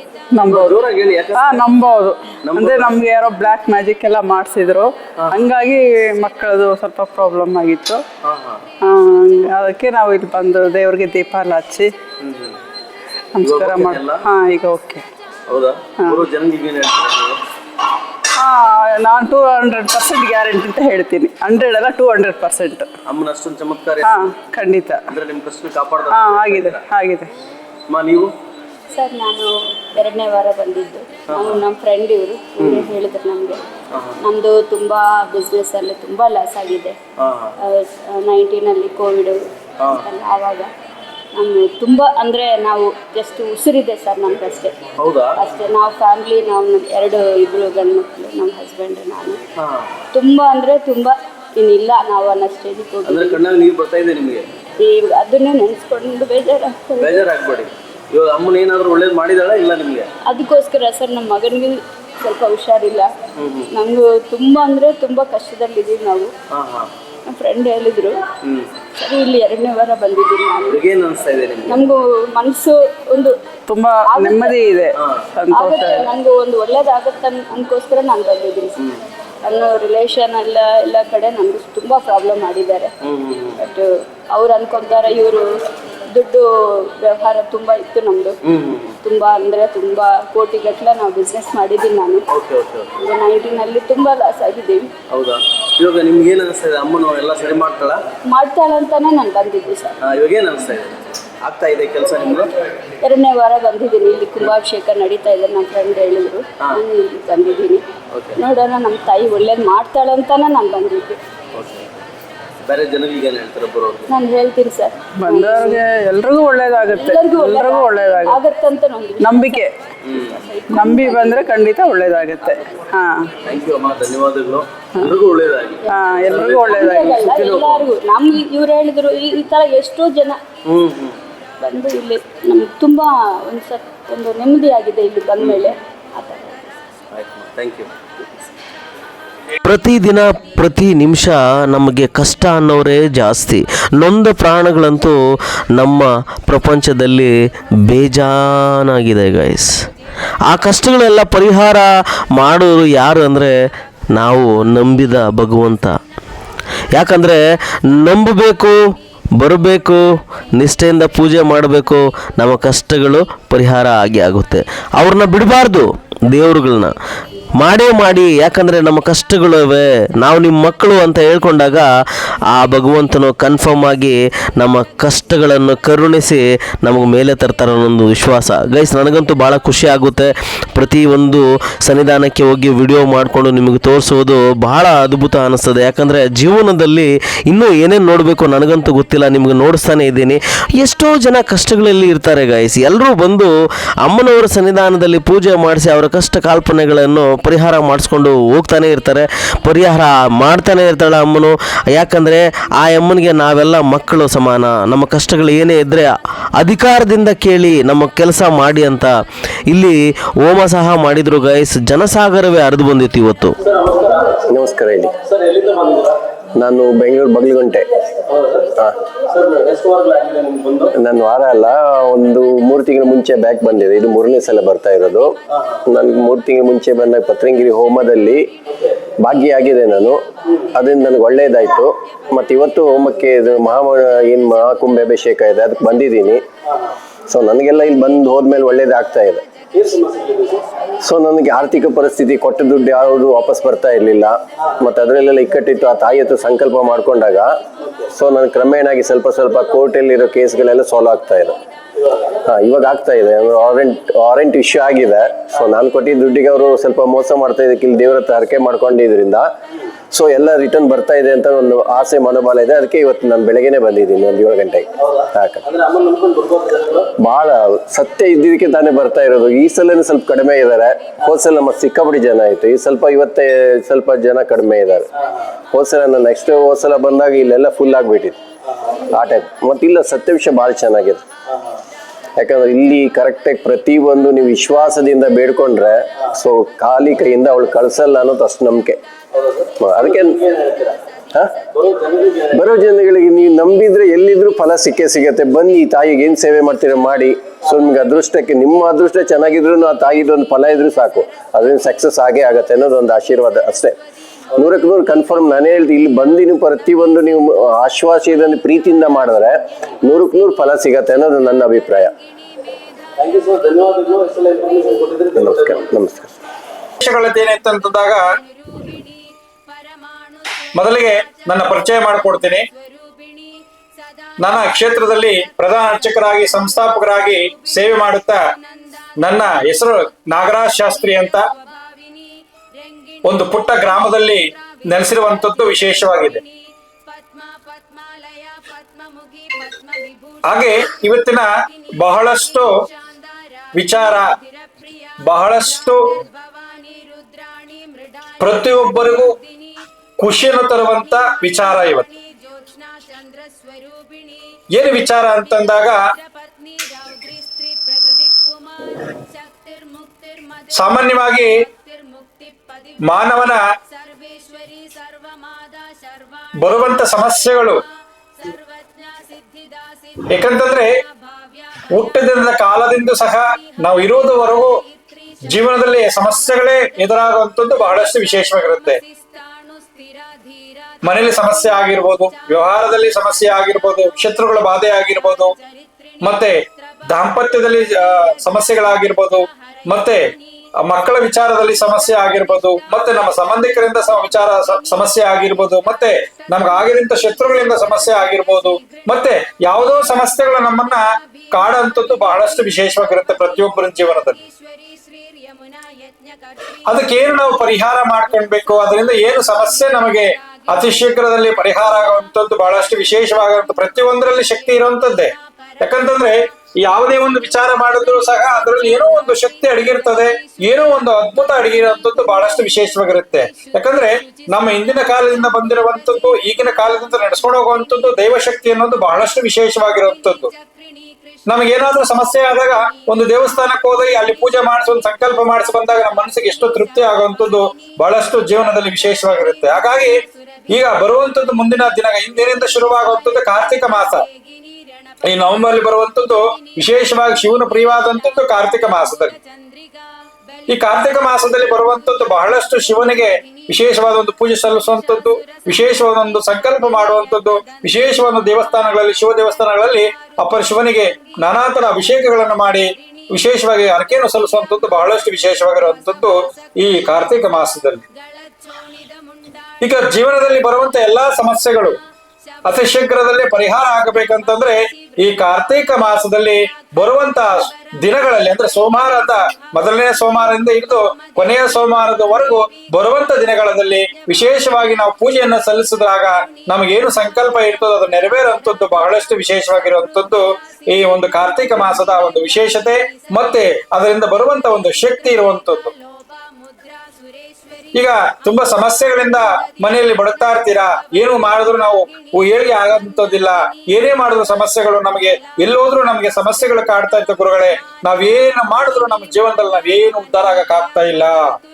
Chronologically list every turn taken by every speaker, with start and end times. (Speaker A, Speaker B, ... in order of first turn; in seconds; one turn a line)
Speaker A: 0.3-0.8
Speaker B: 0.4-1.7
Speaker A: 1.3-8.0
Speaker B: 2.5-3.0
Speaker B: 5.2-5.4
Speaker B: 8.2-8.6
Speaker A: 8.8-11.9
Speaker B: 12.2-12.6
Speaker A: 13.3-15.0
Speaker B: 13.4-14.2
Speaker B: 15.5-17.4
Speaker A: 16.0-16.2
Speaker A: 18.4-22.9
Speaker B: 23.1-24.2
Speaker A: 24.0-25.0
Speaker B: 25.1-26.8
Speaker A: 26.1-27.3
Speaker B: 27.9-28.3
Speaker C: 28.9-33.6
Speaker B: 31.3-31.6
Speaker B: 32.6-32.9
Speaker B: 33.9-34.2
Speaker C: 34.2-37.0
Speaker B: 37.2-37.5
Speaker C: 37.6-39.4
Speaker B: 39.8-40.1
Speaker C: 39.9-40.7
Speaker C: 41.4-44.8
Speaker B: 45.0-45.4
Speaker C: 45.4-49.4
Speaker B: 49.6-49.9
Speaker C: 50.1-53.4
Speaker B: 53.1-54.5
Speaker C: 54.8-57.3
Speaker B: 57.0-60.1
Speaker C: 60.2-63.1
Speaker B: 63.4-63.7
Speaker C: 63.7-66.3
Speaker B: 66.5-66.9
Speaker C: 67.3-68.2
Speaker B: 68.4-68.7
Speaker C: 68.9-70.8
Speaker B: 70.7-71.9
Speaker C: 71.7-73.3
Speaker A: 73.7-76.1
Speaker C: 74.0-74.6
Speaker C: 75.5-78.8
Speaker C: 79.4-82.9
Speaker B: 83.0-83.6
Speaker C: 83.6-85.5
Speaker C: 86.1-88.4
Speaker B: 88.5-89.0
Speaker C: 89.0-92.3
Speaker B: 92.3-92.9
Speaker C: 93.0-94.9
Speaker B: 95.1-98.0
Speaker C: 98.3-100.0
Speaker B: 100.0-102.5
Speaker C: 103.0-107.8
Speaker B: 108.1-108.4
Speaker C: 108.4-111.2
Speaker B: 111.5-111.9
Speaker B: 112.7-114.1
Speaker C: 114.1-115.8
Speaker A: 115.2-118.4
Speaker C: 116.9-121.5
Speaker A: 119.2-119.7
Speaker B: 120.0-120.4
Speaker A: 120.7-123.3
Speaker B: 123.5-127.9
Speaker A: 125.9-127.2
Speaker C: 126.7-130.4
Speaker B: 130.7-131.2
Speaker C: 131.6-136.8
Speaker B: 135.4-135.7
Speaker B: 137.1-137.9
Speaker D: 139.6-145.2
Speaker D: 145.8-147.3
Speaker D: 147.9-149.7
Speaker D: 150.5-151.8
Speaker D: 152.4-153.5
Speaker D: 154.1-155.9
Speaker D: 156.9-157.4
Speaker D: 158.0-158.8
Speaker D: 159.4-160.0
Speaker D: 160.6-166.9
Speaker D: 167.6-171.9
Speaker D: 172.5-193.5
Speaker D: 194.0-209.1
Speaker D: 209.7-213.6
Speaker B: 213.7-214.3
Speaker E: 214.3-215.2
Speaker B: 215.3-216.2
Speaker E: 216.6-217.9
Speaker B: 218.3-220.9
Speaker E: 221.0-225.3
Speaker E: 225.9-228.4
Speaker E: 229.2-230.2
Speaker E: 230.7-236.4
Speaker E: 237.3-239.4
Speaker B: 239.7-240.7
Speaker E: 241.0-247.5
Speaker E: 248.1-251.6
Speaker E: 252.3-259.5
Speaker E: 260.1-265.6
Speaker B: 265.2-267.1
Speaker E: 267.2-275.1
Speaker E: 275.7-278.4
Speaker E: 279.0-281.2
Speaker E: 282.4-289.0
Speaker B: 289.3-291.0
Speaker E: 289.8-290.4
Speaker E: 291.3-291.6
Speaker B: 291.7-292.6
Speaker E: 292.5-304.0
Speaker E: 304.5-312.1
Speaker B: 313.2-315.9
Speaker E: 315.4-316.4
Speaker F: 317.0-318.2
Speaker F: 320.8-322.6
Speaker F: 324.4-328.4
Speaker F: 329.2-331.4
Speaker F: 333.2-336.4
Speaker F: 340.5-342.7
Speaker F: 343.8-344.3
Speaker F: 345.2-346.0
Speaker F: 348.4-349.4
Speaker F: 350.2-352.1
Speaker F: 354.7-356.0
Speaker F: 360.7-361.5
Speaker F: 363.1-363.6
Speaker F: 366.6-367.8
Speaker F: 370.3-370.9
Speaker F: 371.9-374.7
Speaker F: 375.5-379.0
Speaker F: 381.0-385.5
Speaker F: 386.2-386.6
Speaker F: 387.1-390.2
Speaker F: 390.8-404.4
Speaker F: 406.9-430.5
Speaker F: 431.5-440.2
Speaker F: 440.7-444.3
Speaker F: 445.2-449.4
Speaker F: 450.7-468.0
Speaker F: 469.8-471.9
Speaker F: 472.6-495.9
Speaker F: 497.9-511.4